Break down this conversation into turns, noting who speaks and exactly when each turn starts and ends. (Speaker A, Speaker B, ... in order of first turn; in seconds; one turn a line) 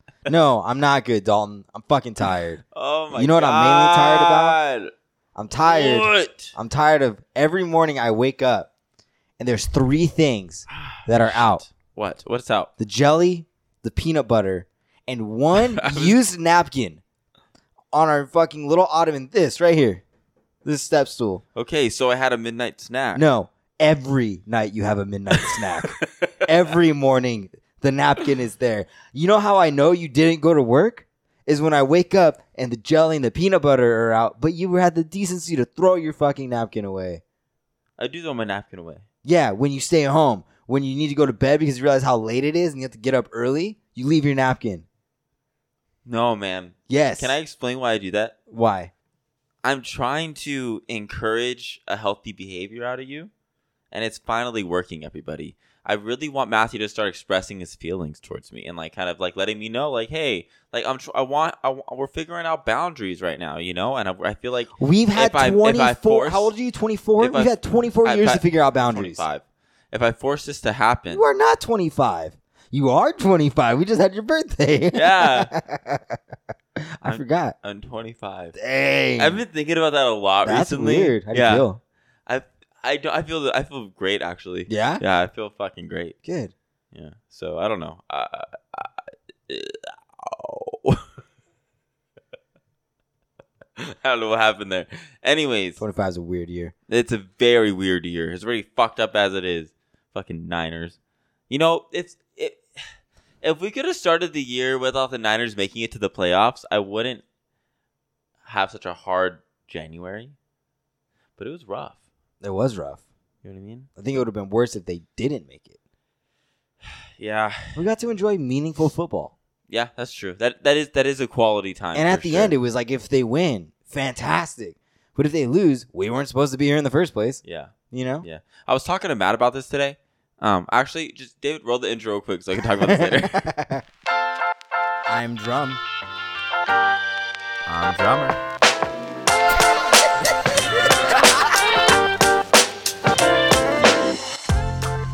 Speaker A: 0.3-2.6
Speaker B: 2.7-4.9
Speaker A: 3.1-4.6
Speaker A: 5.3-8.7
Speaker B: 5.6-6.5
Speaker A: 9.4-11.6
Speaker B: 10.7-12.7
Speaker A: 12.8-17.0
Speaker B: 15.6-16.1
Speaker A: 17.9-20.0
Speaker A: 20.6-21.4
Speaker B: 21.5-23.2
Speaker A: 23.1-37.2
Speaker B: 25.4-26.4
Speaker B: 38.0-39.0
Speaker A: 39.2-44.9
Speaker B: 46.0-48.3
Speaker A: 46.9-47.3
Speaker A: 48.5-48.9
Speaker B: 49.6-53.3
Speaker B: 53.9-66.5
Speaker A: 64.8-69.2
Speaker B: 67.2-71.2
Speaker A: 71.1-76.2
Speaker B: 74.9-75.5
Speaker A: 76.8-77.5
Speaker B: 77.0-78.5
Speaker A: 78.5-79.4
Speaker B: 79.2-81.7
Speaker A: 80.4-81.8
Speaker B: 82.3-86.2
Speaker A: 84.7-85.0
Speaker A: 86.2-86.5
Speaker B: 86.9-91.1
Speaker B: 93.8-95.8
Speaker A: 95.8-96.7
Speaker B: 96.9-101.0
Speaker B: 101.5-102.6
Speaker B: 103.4-107.2
Speaker B: 108.5-110.3
Speaker B: 111.4-112.0
Speaker A: 112.4-113.0
Speaker B: 113.4-113.9
Speaker A: 114.0-115.8
Speaker B: 116.9-117.8
Speaker A: 117.8-119.3
Speaker B: 119.7-122.5
Speaker A: 121.9-128.2
Speaker B: 127.4-133.4
Speaker A: 132.8-133.8
Speaker A: 135.1-135.8
Speaker B: 137.7-138.4